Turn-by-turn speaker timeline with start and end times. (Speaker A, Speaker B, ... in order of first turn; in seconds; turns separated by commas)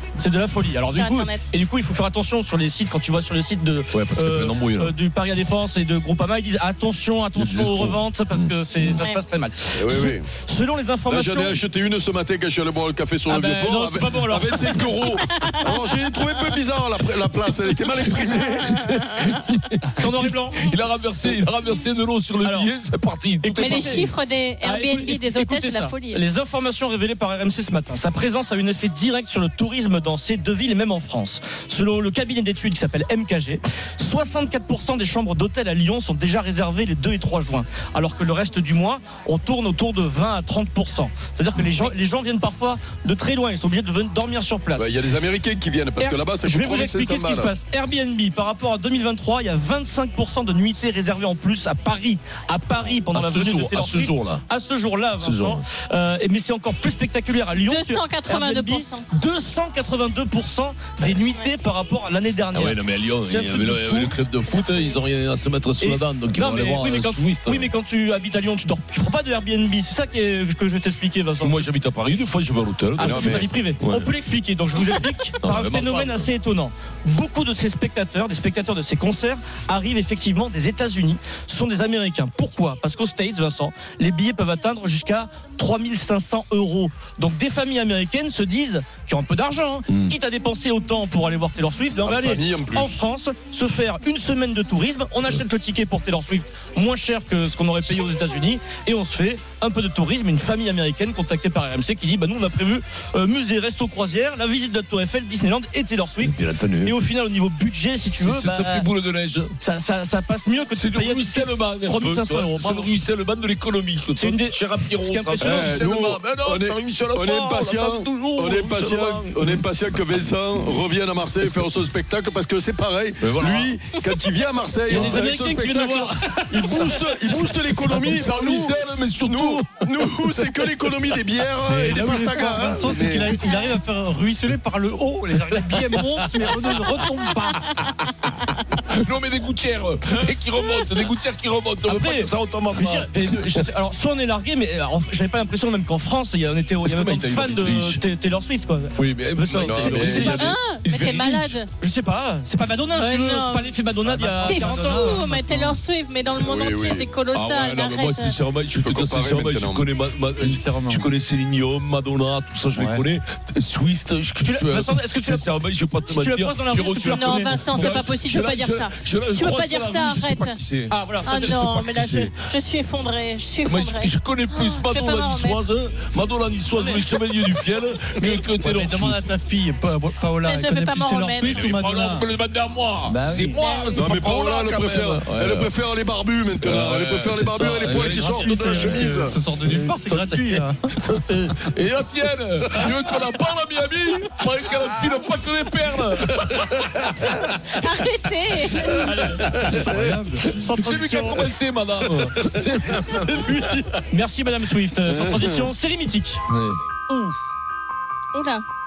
Speaker A: 0.2-11.6, Speaker B: 0.9-1.5, Speaker C: 3.9-4.9, Speaker C: 7.3-9.0, Speaker B: 9.0-9.2, Speaker D: 9.8-10.3, Speaker D: 11.1-18.8, Speaker A: 13.3-14.8, Speaker B: 15.2-15.6, Speaker C: 18.0-24.1, Speaker A: 19.9-20.7, Speaker A: 22.4-22.7, Speaker A: 23.4-24.1, Speaker B: 23.6-26.2, Speaker A: 24.6-44.9, Speaker D: 44.7-47.5, Speaker A: 46.0-64.2, Speaker C: 53.1-54.4, Speaker C: 55.2-55.6, Speaker B: 57.6-59.0, Speaker C: 62.5-67.7, Speaker A: 65.8-71.6, Speaker C: 71.4-74.1, Speaker A: 73.0-108.8, Speaker D: 73.0-73.5, Speaker C: 75.4-76.3, Speaker C: 89.9-90.2, Speaker D: 92.0-93.0, Speaker C: 106.2-106.9, Speaker C: 108.2-109.5, Speaker A: 109.6-112.9, Speaker C: 110.7-119.7, Speaker A: 114.2-115.8, Speaker D: 115.4-133.4, Speaker C: 120.5-120.8, Speaker C: 121.4-121.8, Speaker C: 123.2-123.7, Speaker A: 124.9-127.0, Speaker C: 124.9-125.3, Speaker C: 127.3-131.1, Speaker E: 131.7-137.7, Speaker C: 137.6-138.3, Speaker C: 138.9-143.7, Speaker A: 141.9-150.5, Speaker C: 146.8-148.0, Speaker C: 149.0-151.6, Speaker D: 149.6-150.5, Speaker B: 150.2-151.7, Speaker A: 151.7-155.3, Speaker B: 152.9-153.8, Speaker E: 154.0-155.8, Speaker B: 154.4-158.4, Speaker D: 156.4-157.1, Speaker C: 157.3-172.3, Speaker D: 158.7-159.9, Speaker E: 160.4-161.1, Speaker E: 162.7-163.0, Speaker A: 164.4-165.4, Speaker A: 166.1-167.7, Speaker B: 167.0-170.6, Speaker A: 170.9-171.8, Speaker B: 171.2-175.6, Speaker C: 173.6-179.3, Speaker A: 176.7-177.1, Speaker E: 178.3-182.3, Speaker B: 180.4-181.6, Speaker C: 181.4-185.7, Speaker E: 183.1-183.6, Speaker B: 183.5-184.2, Speaker D: 183.9-189.3, Speaker C: 186.6-197.8, Speaker E: 187.9-190.9, Speaker B: 197.7-199.1, Speaker C: 198.7-204.0, Speaker A: 198.9-201.5, Speaker E: 199.7-200.6, Speaker D: 203.1-203.6, Speaker A: 204.1-206.4, Speaker D: 205.1-205.7, Speaker C: 206.5-206.8, Speaker A: 207.1-207.3, Speaker B: 208.3-208.6